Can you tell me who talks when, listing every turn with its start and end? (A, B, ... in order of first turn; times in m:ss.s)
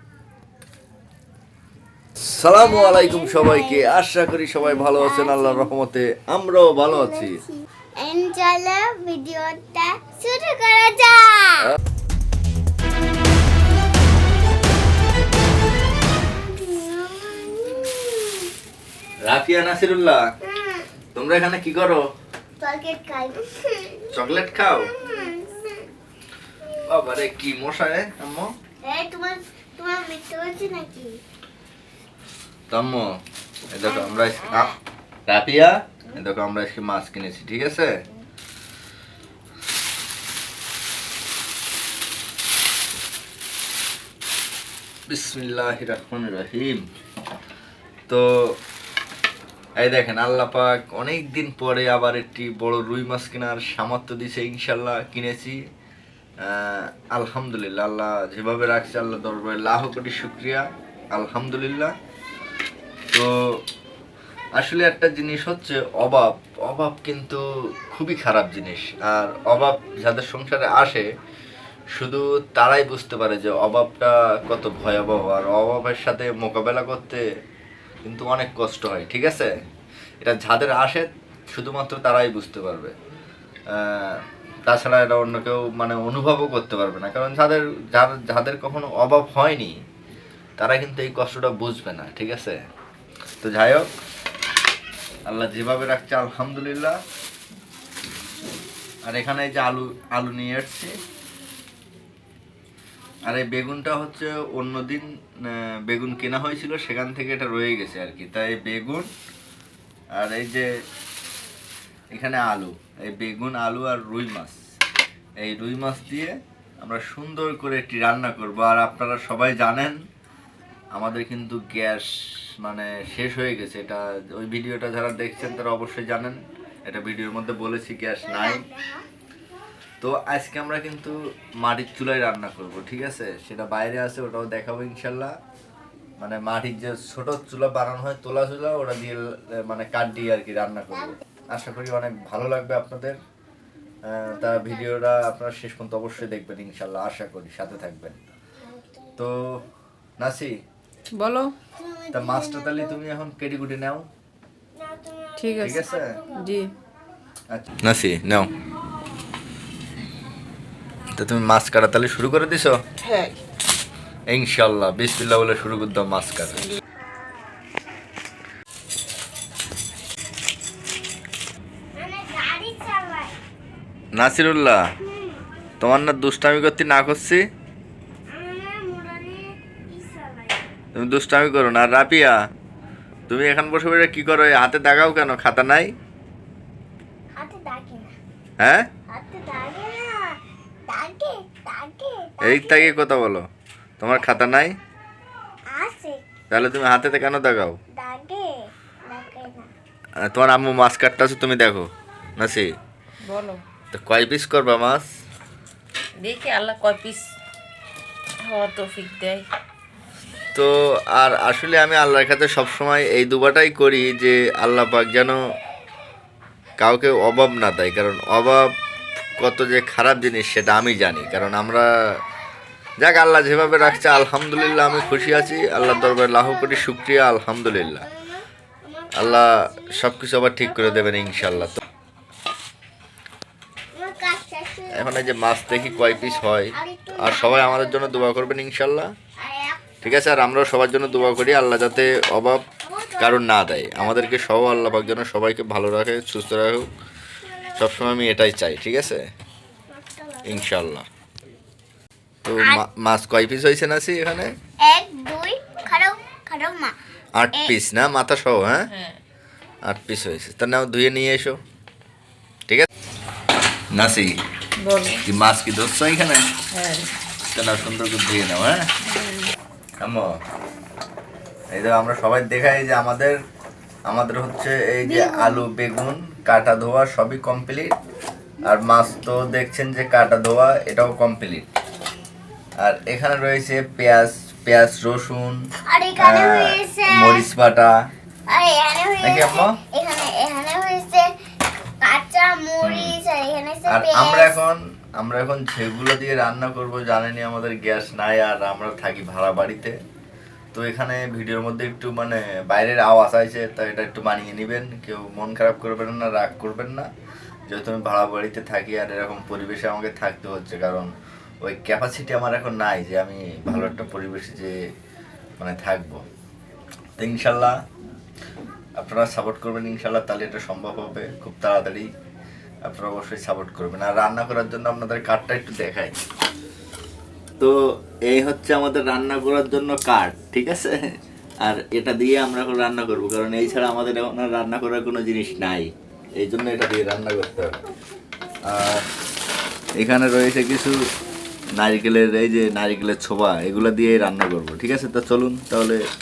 0:02.2-0:07.4 A
0:02.5-0:04.0 B
0:04.6-0:05.7 B
0:06.8-0:11.7 B
0:16.3-0:18.5 B
0:19.2-0:20.2 A
0:20.4-0:20.9 B
0:21.1-0:22.0 A
0:22.6-0:24.1 B
0:24.1-0:25.0 A
0:24.7-0:25.9 B
0:26.8-0:28.5 A
0:28.8-0:31.2 B
0:32.7-0:33.1 A
0:33.7-0:34.7 A
0:34.0-0:34.7 B
0:35.3-0:38.0 A
0:45.1-0:46.8 A
0:48.1-0:48.6 A
0:49.8-0:55.6 A
0:56.4-1:01.9 A
1:04.6-1:11.0 A
1:11.9-1:17.2 A
1:18.0-1:19.5 A
1:20.2-1:22.9 A
1:23.7-1:29.8 A
1:30.6-1:32.6 A
1:33.4-1:33.9 A
1:35.2-1:37.0 A
1:39.0-1:40.9 A
1:43.3-1:49.1 A
1:50.1-1:50.6 A
1:52.1-1:54.6 A
1:55.4-2:00.0 A
2:00.9-2:08.6 A
2:08.2-2:09.0 B
2:10.0-2:15.4 A
2:16.2-2:23.2 A
2:24.0-2:28.2 A
2:24.4-2:24.8 B
2:28.6-2:29.2 B
2:29.2-2:29.6 A
2:30.2-2:30.6 A
2:31.1-2:31.5 C
2:31.8-2:33.0 B
2:32.1-2:34.1 A
2:34.8-2:36.6 B
2:35.4-2:36.6 C
2:35.6-2:36.2 A
2:37.5-2:38.5 A
2:41.1-2:42.8 A
2:44.3-2:46.7 A
2:51.9-2:53.4 B
2:54.1-2:54.8 A
2:55.0-2:55.4 B
2:55.8-2:57.4 A
2:58.3-3:00.6 B
3:00.9-3:02.3 A
3:03.3-3:05.9 A
3:07.4-3:08.1 B
3:08.6-3:08.8 A
3:09.1-3:13.0 B
3:12.4-3:13.4 A
3:14.0-3:14.8 A
3:15.7-3:16.3 B
3:16.5-3:17.8 A
3:17.9-3:19.7 B
3:20.2-3:22.7 A
3:23.2-3:23.6 C
3:23.9-3:25.0 A
3:26.2-3:27.2 C
3:28.4-3:29.4 C
3:30.5-3:35.4 A
3:36.8-3:38.7 A
3:39.4-3:41.9 A
3:43.0-3:48.0 A
3:43.7-3:46.8 B
3:47.9-3:51.8 B
3:49.1-3:51.8 A
3:53.9-3:58.5 B
3:54.9-3:59.1 A
3:59.4-4:00.2 B
4:00.0-4:02.6 A
4:02.8-4:04.7 B
4:03.2-4:06.9 A
4:07.4-4:08.1 B
4:07.8-4:09.2 A
4:09.9-4:10.7 B
4:10.4-4:11.0 A
4:12.4-4:14.5 A
4:12.6-4:12.8 B
4:14.8-4:16.9 B
4:17.4-4:18.9 A
4:18.9-4:19.2 C
4:19.8-4:21.6 A
4:23.9-4:24.4 A
4:24.8-4:25.2 C
4:25.2-4:26.4 A
4:26.7-4:27.1 C
4:27.5-4:28.8 A
4:29.0-4:29.5 C
4:30.0-4:30.4 A
4:31.7-4:33.4 A
4:34.1-4:37.9 A
4:38.6-4:41.7 A
4:42.8-4:45.6 A
4:45.9-4:47.5 B
4:46.2-4:47.9 A
4:48.5-4:51.3 B
4:49.2-4:49.8 A
4:52.0-4:54.6 B
4:52.8-4:53.2 A
4:53.9-5:00.0 A
5:00.7-5:07.1 A
5:07.7-5:14.8 A
5:15.6-5:16.2 A
5:17.2-5:17.8 A
5:19.0-5:22.1 A
5:22.8-5:26.2 A
5:28.3-5:37.7 A
5:38.6-5:39.0 A
5:40.0-5:41.0 A
5:41.8-5:46.0 A